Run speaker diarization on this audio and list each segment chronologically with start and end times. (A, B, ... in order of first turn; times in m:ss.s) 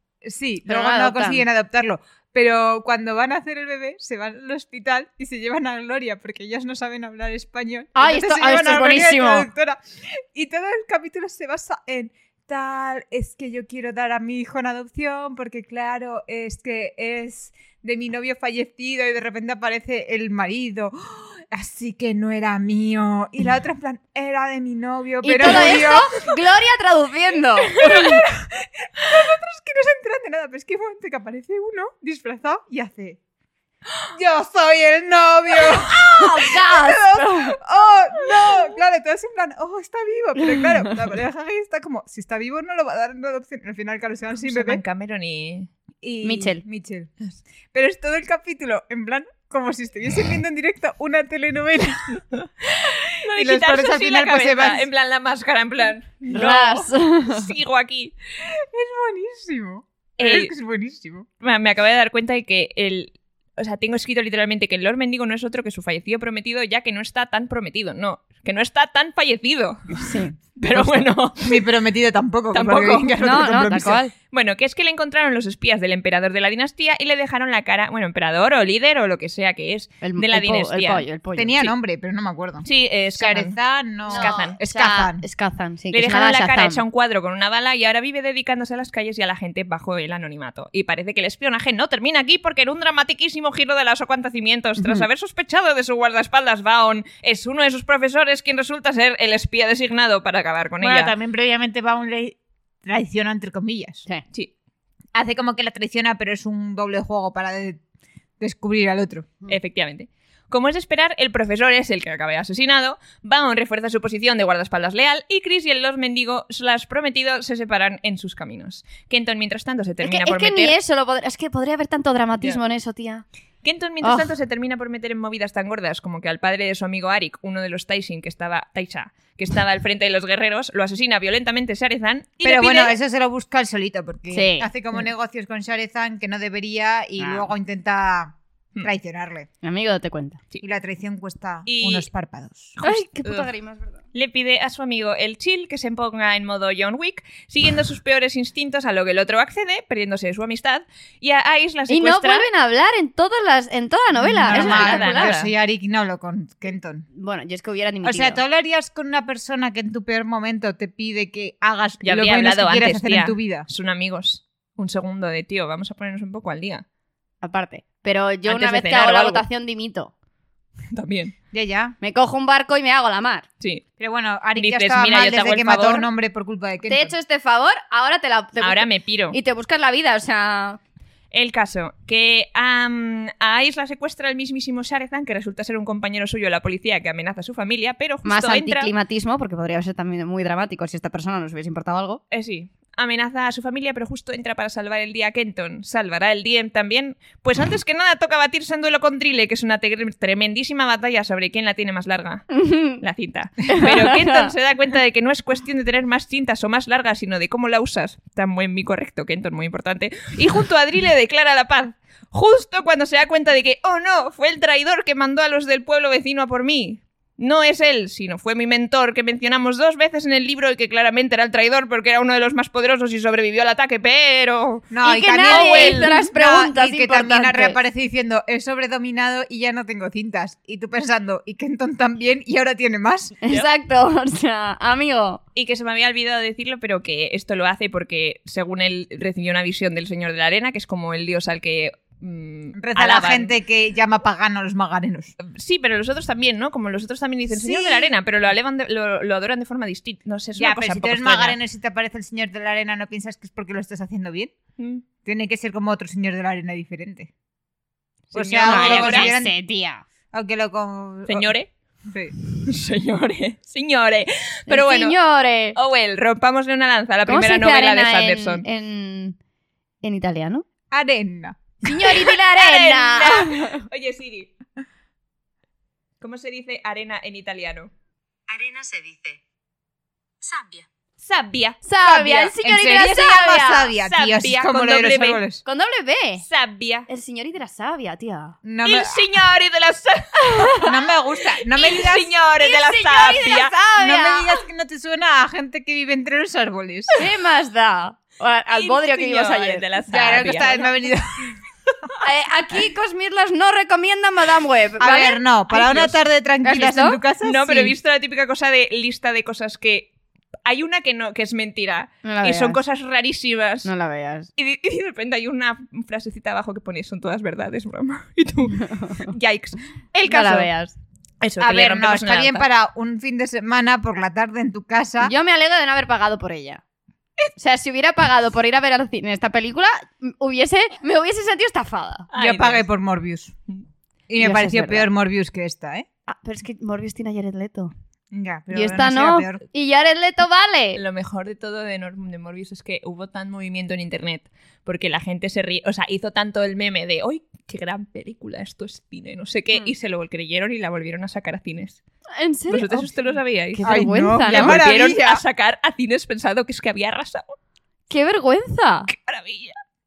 0:00.2-0:26.3 A
0:00.7-0:01.4 B
0:08.0-0:09.5 B
0:25.2-0:28.2 B
0:27.8-0:33.2 A
0:34.1-0:44.8 A
0:35.9-0:37.6 B
0:44.4-0:45.7 C
0:46.0-0:47.1 A
0:46.2-0:46.6 B
0:47.7-0:52.2 A
0:52.1-0:58.1 C
0:52.8-0:54.8 A
0:56.3-0:57.5 B
0:58.4-1:01.3 A
1:00.2-1:00.5 C
1:01.4-1:11.6 C
1:09.9-1:10.4 B
1:11.4-1:14.0 A
1:12.5-1:13.2 C
1:13.2-1:14.1 B
1:14.3-1:21.0 C
1:20.0-1:21.7 B
1:21.3-1:25.2 A
1:22.6-1:23.6 C
1:24.1-1:26.8 B
1:24.1-1:24.6 C
1:25.9-1:41.1 C
1:34.8-1:35.0 B
1:40.8-1:44.0 A
1:45.1-1:47.8 A
1:48.4-1:49.3 A
1:49.5-2:00.8 C
2:00.0-2:03.2 B
2:03.6-2:13.0 C
2:04.0-2:04.3 B
2:12.4-2:19.5 A
2:14.3-2:14.7 B
2:17.2-2:17.5 B
2:19.6-2:20.4 B
2:20.6-2:22.8 A
2:21.6-2:22.1 C
2:22.8-2:23.5 C
2:22.8-2:24.0 B
2:24.1-2:32.5 C
2:31.9-2:35.4 B
2:34.2-2:37.0 A
2:34.5-2:35.5 C
2:37.1-2:38.4 B
2:38.0-2:43.7 A
2:42.0-2:46.8 C
2:47.4-2:50.1 B
2:48.4-2:49.4 C
2:50.9-2:51.3 C
2:51.5-2:52.0 A
2:52.0-2:53.4 B
2:54.0-2:57.1 A
2:54.6-2:56.1 C
2:56.9-3:00.8 B
2:58.6-2:59.4 C
3:01.3-3:08.9 C
3:08.2-3:12.2 B
3:12.3-3:22.4 C
3:22.5-3:23.0 B
3:23.0-3:44.9 C
3:23.6-3:24.5 B
3:44.9-3:53.3 A
3:45.0-3:47.8 B
3:45.5-3:46.2 C
3:53.4-3:55.4 B
3:55.5-4:03.5 C
4:02.7-4:05.3 A
4:05.4-4:11.6 C
4:07.5-4:08.1 A
4:10.6-4:14.5 A
4:14.8-4:15.0 C
4:15.2-4:17.3 A
4:18.3-4:19.3 C
4:18.3-4:19.5 A
4:18.6-4:20.0 B
4:20.3-4:21.5 A
4:21.3-4:21.7 C
4:22.1-4:22.3 A
4:22.4-4:25.2 C
4:24.7-4:25.8 B
4:25.7-4:28.6 C
4:27.3-4:29.4 B
4:30.0-4:30.6 B
4:30.9-4:31.8 A
4:31.8-4:33.8 B
4:32.0-4:34.5 C
4:36.2-4:37.9 C
4:38.5-4:39.3 A
4:41.2-4:41.8 C
4:41.8-4:43.9 B
4:42.0-4:45.6 A
4:44.0-4:45.4 C
4:45.6-4:46.4 B
4:46.4-4:47.1 C
4:47.1-4:48.6 B
4:48.6-4:49.2 A
4:48.8-4:50.8 C
4:50.4-4:51.0 B
4:50.8-4:52.3 A
4:51.7-4:53.7 C
4:52.6-4:54.6 B
4:54.0-4:57.2 A
4:57.2-4:59.8 B
4:58.7-5:00.9 C
5:00.1-5:01.6 A
5:02.2-5:07.2 B
5:05.0-5:07.9 A
5:07.4-5:10.1 C
5:10.6-5:13.9 C
5:12.2-5:12.8 B
5:13.8-5:14.5 B
5:14.6-5:20.7 C
5:20.3-5:20.9 B
5:21.4-5:22.6 C
5:21.6-5:25.3 A
5:25.2-5:26.8 B
5:27.6-5:32.3 B
5:32.3-5:32.8 C
5:32.4-5:33.5 A
5:34.3-5:36.0 A
5:34.4-5:35.1 B
5:36.3-5:37.9 B
5:38.3-5:39.6 A
5:38.7-5:41.0 B
5:40.9-5:52.0 C
5:52.4-5:53.1 B
5:52.7-5:53.9 C
5:53.7-5:54.8 B
5:53.8-5:55.4 A
5:54.5-5:57.5 C
5:58.1-5:59.1 B
5:59.1-5:59.8 C